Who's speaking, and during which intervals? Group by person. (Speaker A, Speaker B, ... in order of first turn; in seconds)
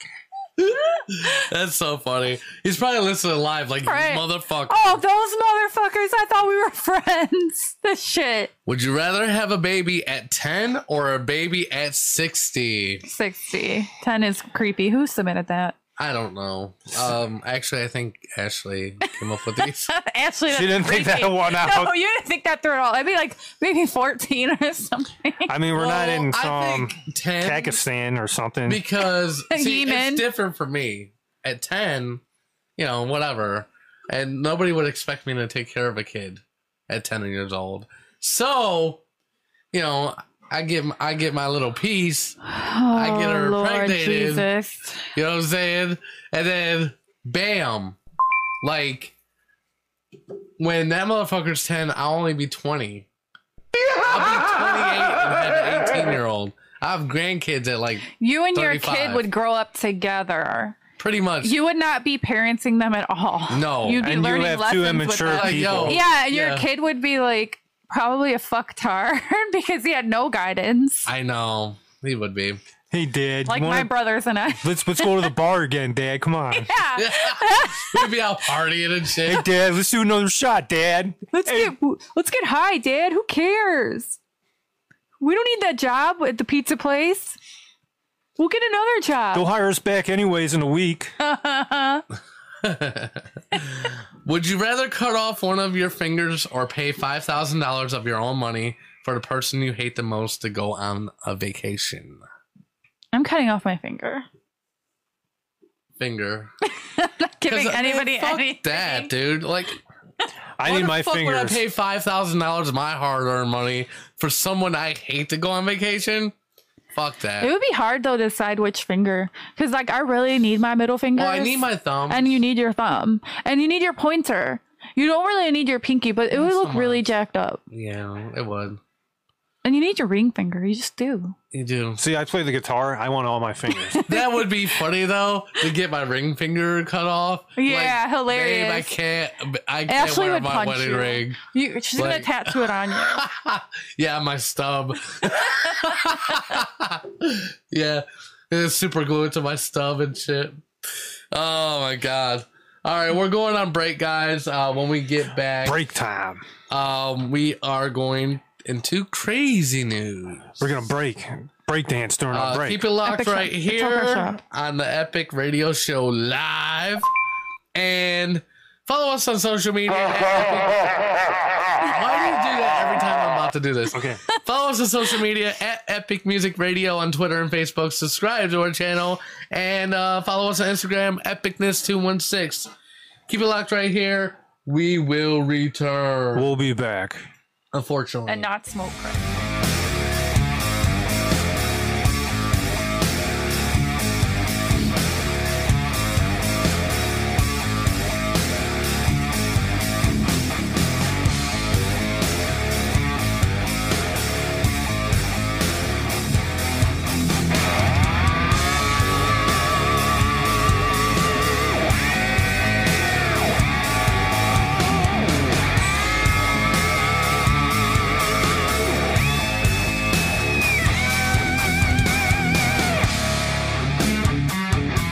Speaker A: 0.6-5.0, 8.7-13.0, 16.0-19.9, 25.8-27.8, 28.7-32.2, 32.8-39.0, 39.7-42.4, 42.9-44.5, 45.1-48.0, 48.6-49.1, 50.6-53.1, 54.0-59.2, 61.0-61.6, 63.5-64.0, 65.3-66.6, 71.1-72.6, 77.0-79.4, 92.6-102.2, 106.0-106.5, 107.5-109.8, 110.6-116.3, 116.9-117.5, 121.2-122.3, 126.3-127.0, 127.7-128.8, 131.5-132.0, 134.1-141.4, 141.9-150.6, 151.3-155.8, 156.7-160.6, 162.3-167.1, 167.7-171.2, 171.8-182.7, 183.3-186.5, 187.7-188.5
Speaker B: 3.9-8.5, 13.0-15.8, 19.6-25.5, 29.5-30.2, 42.5-45.1, 58.2-60.8, 61.4-71.1, 73.5-75.3, 76.6-78.1, 81.3-84.2, 85.2-87.4, 88.4-89.5, 91.2-92.0, 103.1-104.2, 106.8-109.1, 117.4-127.6, 129.6-131.4, 133.9-134.4, 137.6-138.9, 139.9-143.2, 163.1-164.4, 188.3-189.2
Speaker C: 20.5-21.9, 25.5-28.8, 64.0-66.0, 72.9-73.9, 74.6-76.7, 79.2-81.7, 89.3-91.1, 110.6-111.6, 132.0-134.0, 155.6-156.4, 160.6-162.9, 173.9-174.2, 186.3-187.2